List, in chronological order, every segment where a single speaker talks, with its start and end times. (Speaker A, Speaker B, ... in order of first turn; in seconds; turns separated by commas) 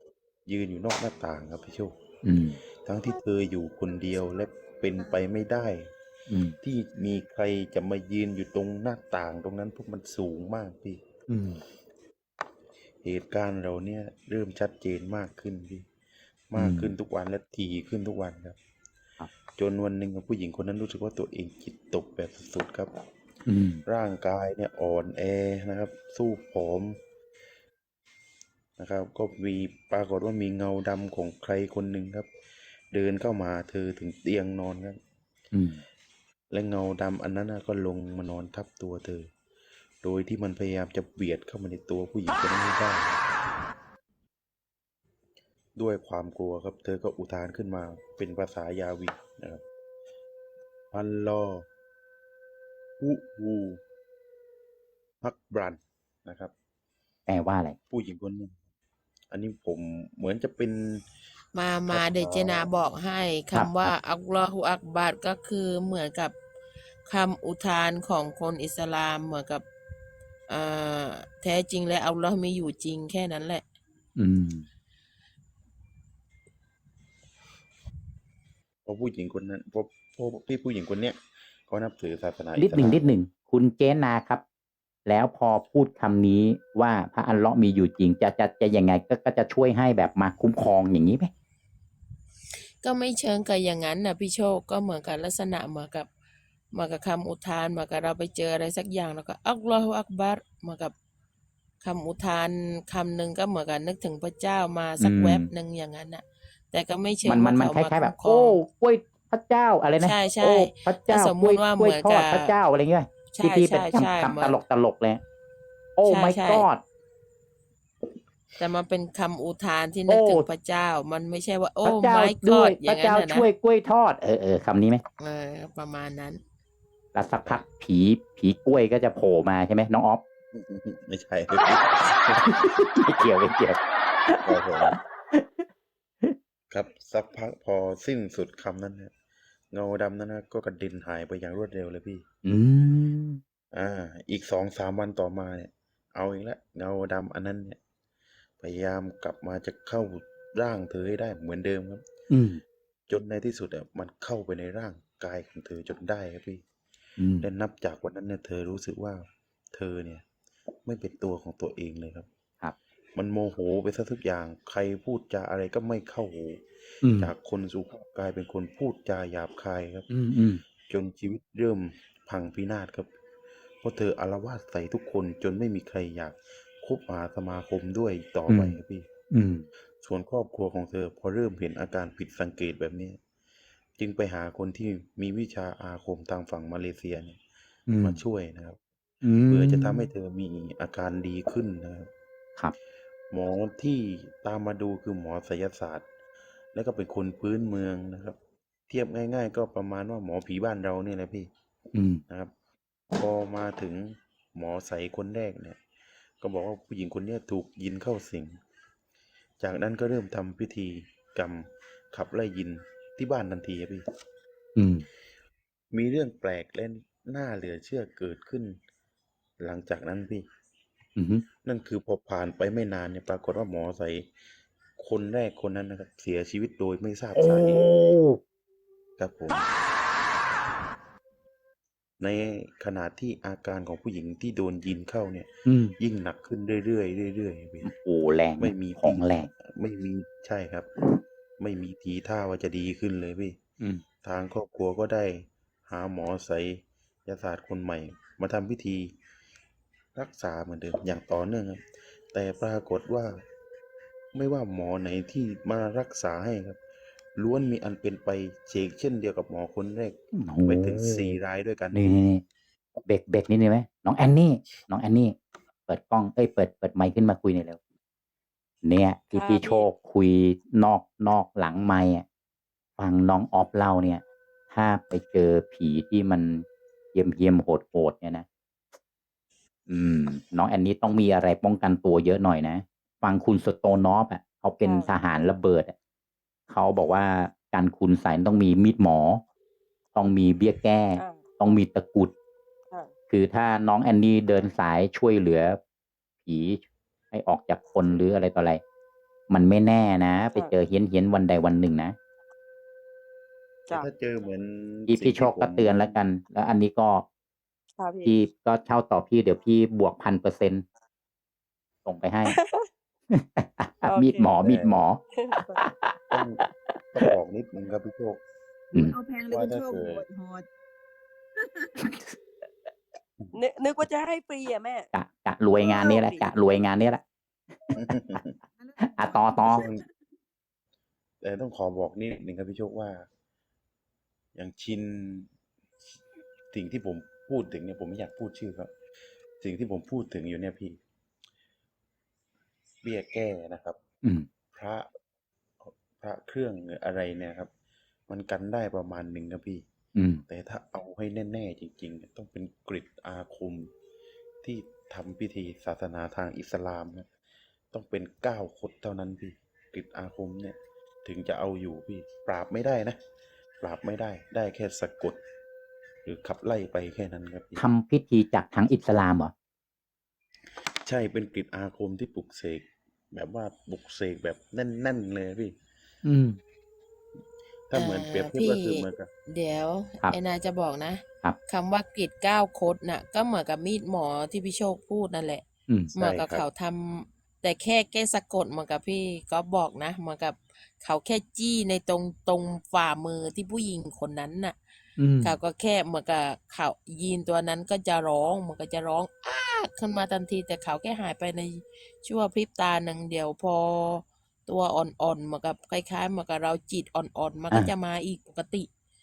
Speaker A: 0.5-2.0, Speaker B: 2.2-2.6, Speaker A: 2.8-5.9, Speaker B: 6.3-6.6, Speaker A: 6.6-11.0, Speaker B: 11.3-11.6, Speaker A: 13.0-15.9, Speaker A: 16.5-18.6, Speaker B: 16.6-16.9, Speaker A: 19.6-22.9, Speaker B: 23.5-23.8, Speaker A: 23.9-27.0, Speaker A: 28.8-32.3, Speaker A: 32.9-35.0, Speaker B: 35.5-35.8, Speaker A: 36.5-39.3, Speaker A: 40.0-43.2, Speaker A: 45.8-49.6, Speaker A: 50.9-51.7, Speaker A: 53.0-53.8, Speaker A: 55.2-56.5, Speaker B: 57.3-57.8, Speaker A: 57.9-58.6, Speaker A: 59.3-61.0, Speaker C: 61.5-66.3, Speaker A: 61.9-62.7, Speaker B: 63.5-63.9, Speaker C: 67.1-69.6, Speaker C: 70.5-73.6, Speaker B: 74.2-74.7, Speaker A: 78.9-83.1, Speaker B: 82.6-84.4, Speaker B: 85.1-91.3, Speaker C: 92.8-96.1, Speaker C: 96.7-100.9, Speaker C: 101.8-108.6, Speaker B: 105.0-105.5, Speaker B: 107.2-115.2, Speaker C: 110.0-112.5, Speaker C: 113.4-114.6, Speaker B: 116.0-116.8, Speaker C: 116.1-116.7, Speaker C: 118.6-123.5, Speaker B: 120.1-120.5, Speaker B: 121.8-125.0, Speaker C: 125.2-126.4, Speaker B: 127.2-130.2, Speaker A: 130.5-132.7, Speaker B: 132.4-135.7, Speaker A: 134.4-135.0, Speaker A: 136.7-139.1, Speaker A: 139.7-142.2, Speaker B: 142.4-143.4, Speaker A: 143.7-147.8, Speaker A: 148.6-152.0, Speaker B: 152.3-152.6, Speaker A: 153.1-156.6, Speaker B: 157.2-157.5, Speaker A: 157.4-160.2, Speaker A: 160.8-162.3, Speaker A: 163.2-170.1, Speaker B: 167.0-167.3, Speaker B: 170.1-170.6, Speaker A: 170.9-173.1, Speaker A: 173.8-179.1, Speaker B: 178.5-178.8, Speaker B: 179.3-179.7, Speaker A: 180.0-183.2, Speaker A: 184.0-187.4, Speaker B: 187.9-188.2, Speaker A: 188.0-188.8, Speaker B: 189.2-190.1, Speaker A: 189.5-192.1, Speaker A: 193.3-196.1, Speaker A: 196.7-198.4, Speaker A: 198.9-201.5, Speaker B: 201.9-202.2, Speaker A: 203.1-205.8, Speaker A: 206.4-208.6, Speaker A: 209.6-214.0, Speaker B: 214.8-215.1, Speaker A: 215.9-218.8, Speaker A: 219.6-220.4, Speaker B: 221.2-221.4, Speaker A: 221.6-224.3, Speaker A: 225.0-227.8, Speaker B: 227.4-228.4, Speaker A: 229.2-229.7, Speaker A: 232.2-237.9, Speaker B: 235.7-235.9, Speaker B: 237.8-239.5, Speaker A: 238.6-240.9, Speaker A: 241.6-243.6, Speaker A: 244.2-249.1, Speaker A: 250.2-253.4, Speaker A: 254.3-256.8, Speaker A: 257.4-262.2, Speaker B: 260.3-261.4, Speaker B: 261.9-262.4, Speaker B: 263.1-265.4, Speaker B: 265.9-267.8, Speaker B: 268.8-272.2, Speaker D: 269.4-269.9, Speaker B: 273.0-278.5, Speaker B: 279.9-285.9, Speaker D: 284.8-285.1, Speaker B: 286.7-289.4, Speaker B: 290.1-292.3, Speaker D: 291.1-291.4, Speaker B: 293.3-295.8, Speaker B: 296.4-298.8, Speaker B: 299.5-302.2, Speaker A: 303.9-306.2, Speaker B: 305.1-307.2, Speaker D: 308.0-308.4, Speaker B: 308.2-310.9, Speaker B: 312.1-312.6, Speaker D: 312.5-312.9, Speaker B: 313.3-316.4, Speaker D: 314.1-314.5, Speaker A: 314.6-315.0, Speaker D: 315.4-315.8, Speaker A: 316.3-318.4, Speaker E: 318.9-320.7, Speaker A: 319.5-320.2, Speaker D: 323.5-325.1, Speaker B: 325.1-327.2, Speaker D: 325.8-326.5, Speaker A: 327.9-328.6, Speaker E: 328.8-329.9, Speaker B: 329.0-329.9, Speaker A: 329.6-330.1, Speaker A: 331.4-333.3, Speaker A: 334.6-335.5, Speaker A: 336.7-338.9, Speaker A: 339.6-341.0, Speaker A: 343.0-344.0, Speaker A: 344.7-345.1, Speaker A: 345.8-347.7, Speaker A: 348.3-349.8, Speaker B: 350.2-350.4, Speaker A: 350.5-353.9, Speaker A: 354.6-357.3, Speaker A: 357.9-363.2, Speaker A: 363.8-365.4, Speaker A: 366.3-367.8, Speaker B: 367.8-369.5, Speaker A: 371.0-375.8, Speaker B: 376.2-376.6, Speaker A: 377.9-379.3, Speaker C: 377.9-385.6, Speaker A: 386.1-386.6, Speaker C: 386.2-394.8, Speaker B: 395.2-395.6, Speaker C: 395.4-408.9